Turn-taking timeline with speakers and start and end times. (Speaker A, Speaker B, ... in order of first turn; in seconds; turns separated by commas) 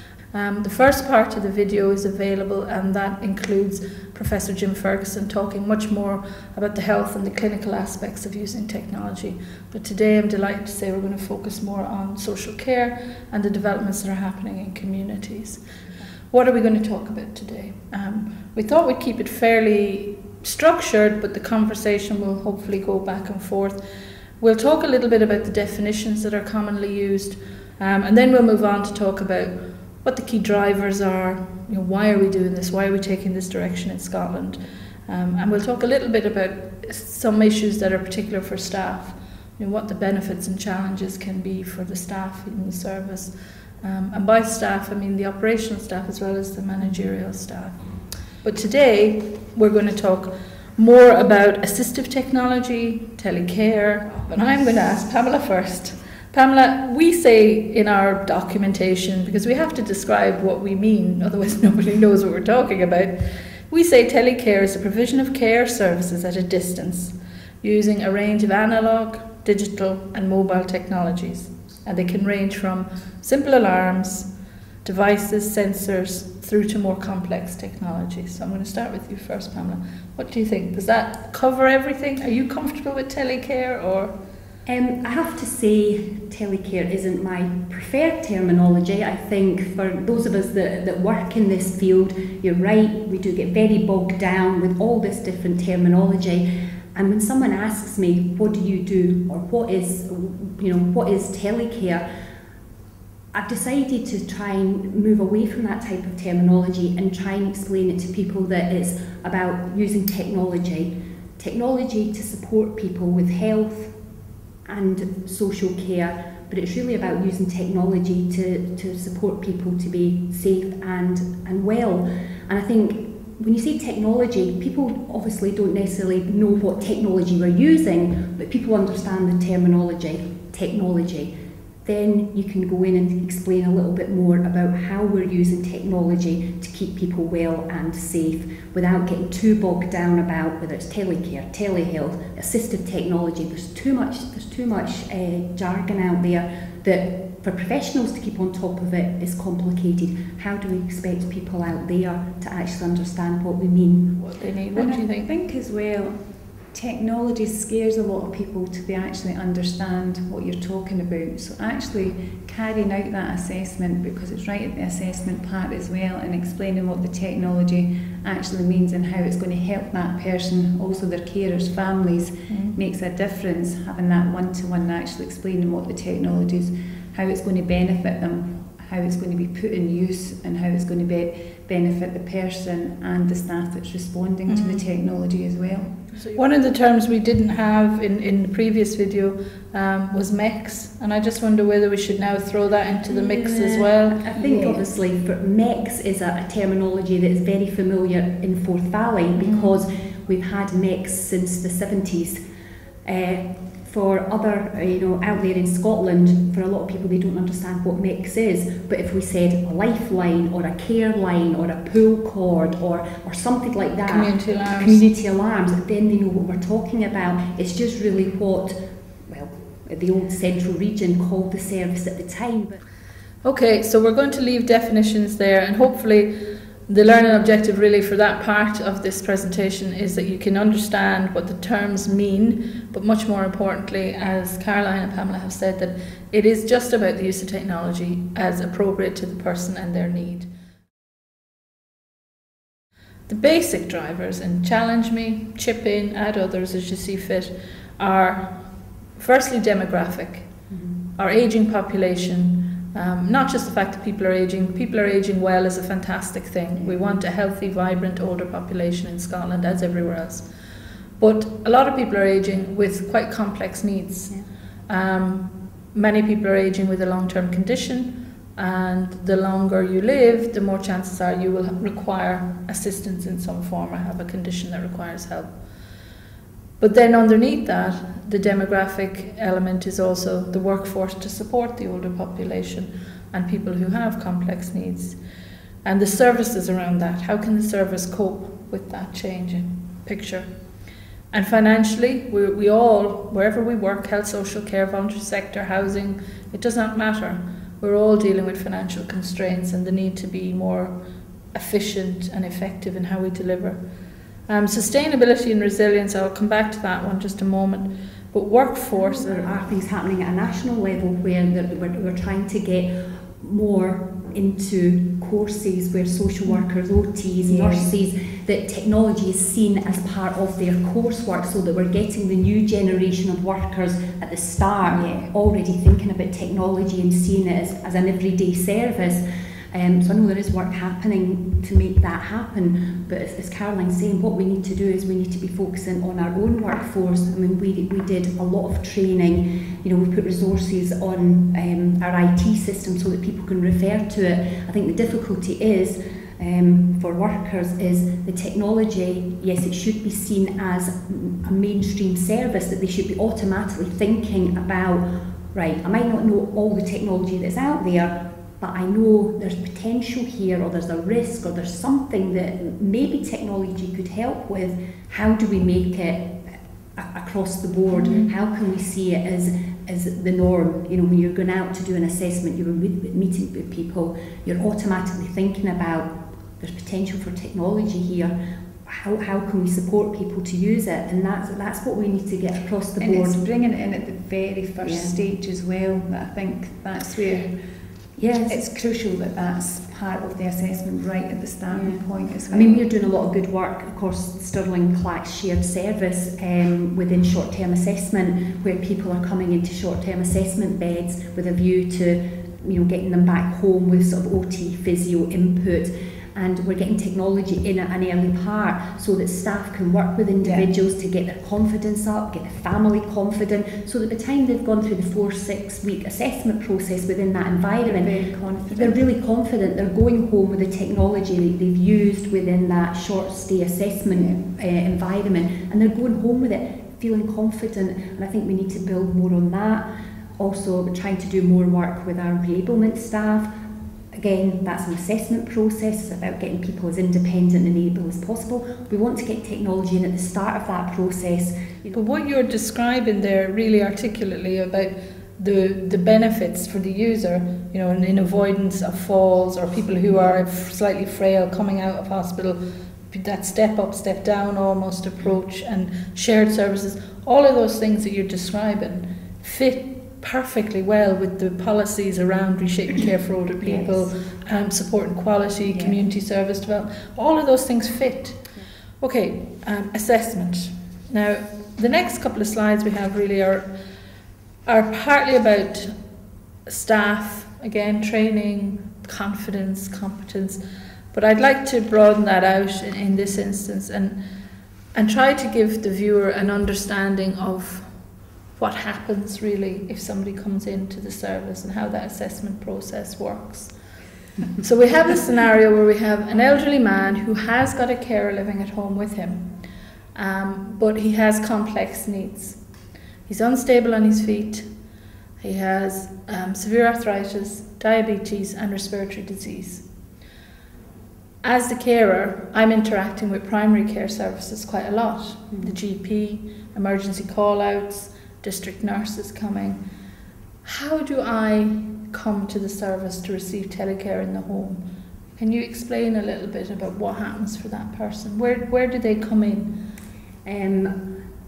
Speaker A: 0.3-15.6, Speaker A: 16.3-23.8, Speaker A: 24.4-47.8, Speaker A: 48.4-74.3, Speaker A: 74.8-84.1, Speaker B: 84.6-102.0, Speaker B: 103.3-113.9, Speaker B: 114.6-131.3, Speaker B: 131.8-154.3, Speaker A: 154.2-155.3, Speaker C: 154.7-186.0, Speaker A: 172.5-172.8, Speaker A: 184.5-184.8, Speaker A: 186.3-194.3, Speaker B: 193.1-202.4, Speaker C: 194.3-194.8, Speaker A: 199.4-199.8, Speaker B: 203.0-222.8, Speaker A: 214.1-215.0, Speaker A: 223.4-240.5, Speaker A: 243.3-250.5, Speaker B: 250.7-250.9, Speaker A: 251.2-260.5, Speaker A: 261.2-264.4, Speaker A: 264.9-275.6, Speaker A: 276.8-285.2, Speaker A: 285.8-290.5, Speaker A: 291.3-300.9, Speaker A: 301.5-303.8, Speaker A: 304.4-309.6, Speaker B: 308.9-383.4, Speaker C: 317.4-317.9, Speaker C: 324.9-325.3, Speaker A: 367.9-368.3, Speaker C: 383.0-387.6, Speaker B: 384.8-385.2, Speaker B: 388.2-388.6, Speaker C: 388.5-392.9, Speaker B: 391.7-433.5, Speaker C: 410.4-410.7, Speaker C: 417.8-419.0, Speaker C: 424.1-424.4, Speaker B: 434.1-442.0, Speaker A: 441.9-473.7, Speaker B: 463.6-464.0, Speaker A: 474.6-476.0, Speaker A: 476.6-480.6, Speaker A: 481.1-484.2, Speaker A: 484.9-493.8, Speaker A: 494.6-499.6, Speaker A: 500.1-502.6, Speaker A: 503.2-504.7, Speaker A: 505.4-509.9, Speaker A: 511.4-519.8, Speaker B: 515.5-515.8, Speaker A: 520.6-524.8, Speaker A: 525.4-529.8, Speaker B: 530.4-531.1